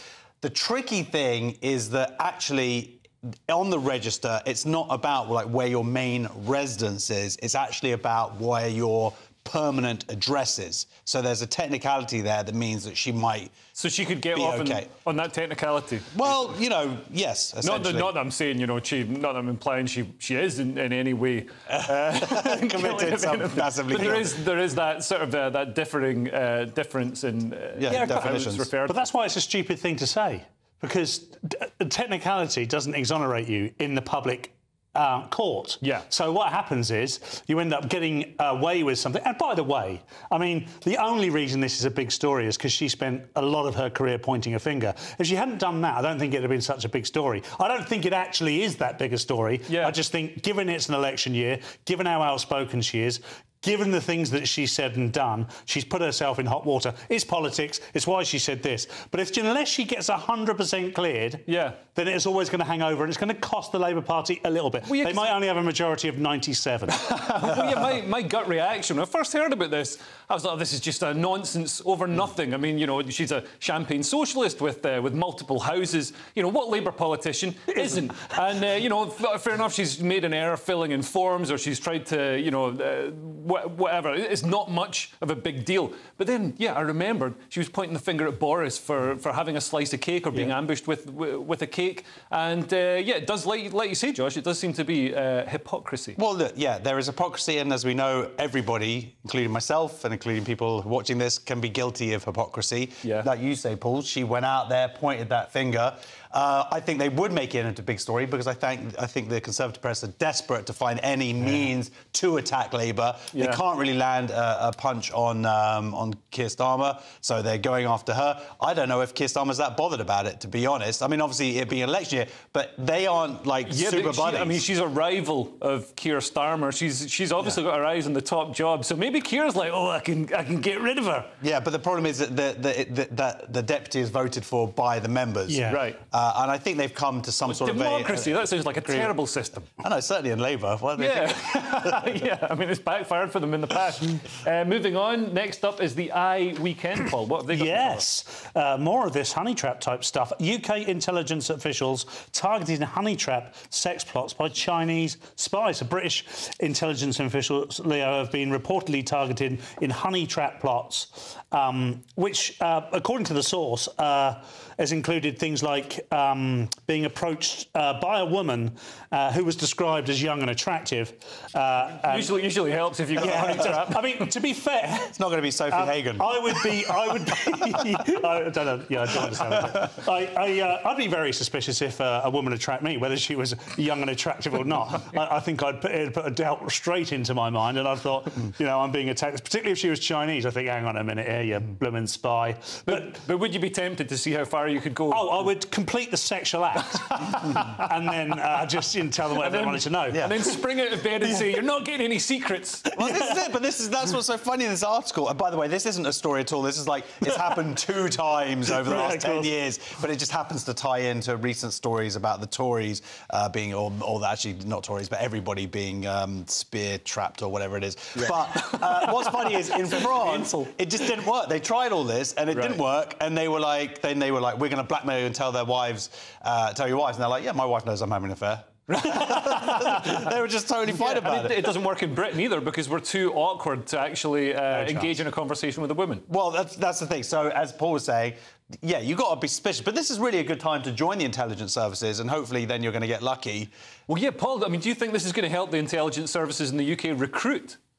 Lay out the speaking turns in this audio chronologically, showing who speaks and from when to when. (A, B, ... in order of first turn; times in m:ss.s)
0:00.4-0:13.5 A
0:13.8-0:16.5 B
0:14.4-0:14.9 A
0:16.1-0:18.1 A
0:17.6-0:29.1 B
0:21.7-0:24.4 A
0:27.8-0:28.7 A
0:28.9-1:07.4 C
0:49.7-0:50.0 B
1:01.5-1:01.8 B
1:04.9-1:05.4 B
1:07.4-1:36.2 B
1:17.8-1:18.1 C
1:36.2-2:04.6 A
1:53.3-1:53.6 B
2:03.7-2:11.2 B
2:10.8-2:11.2 C
2:11.4-2:19.1 A
2:15.5-2:15.8 C
2:15.7-2:16.0 B
2:17.4-2:19.7 B
2:19.8-2:22.2 A
2:21.0-2:28.1 B
2:27.5-2:52.3 C
2:52.0-2:54.3 B
2:53.2-2:55.2 C
2:55.1-2:56.4 A
2:55.7-3:13.2 C
3:12.9-3:15.5 B
3:15.1-3:20.3 C
3:19.4-3:22.9 B
3:20.2-3:20.5 A
3:23.0-3:51.7 A
3:28.8-3:29.5 C
3:38.2-3:40.7 B
3:42.5-3:42.8 B
3:48.9-3:50.2 B
3:50.9-3:56.2 B
3:54.7-3:55.1 A
3:56.3-4:03.7 A
4:04.1-4:07.8 B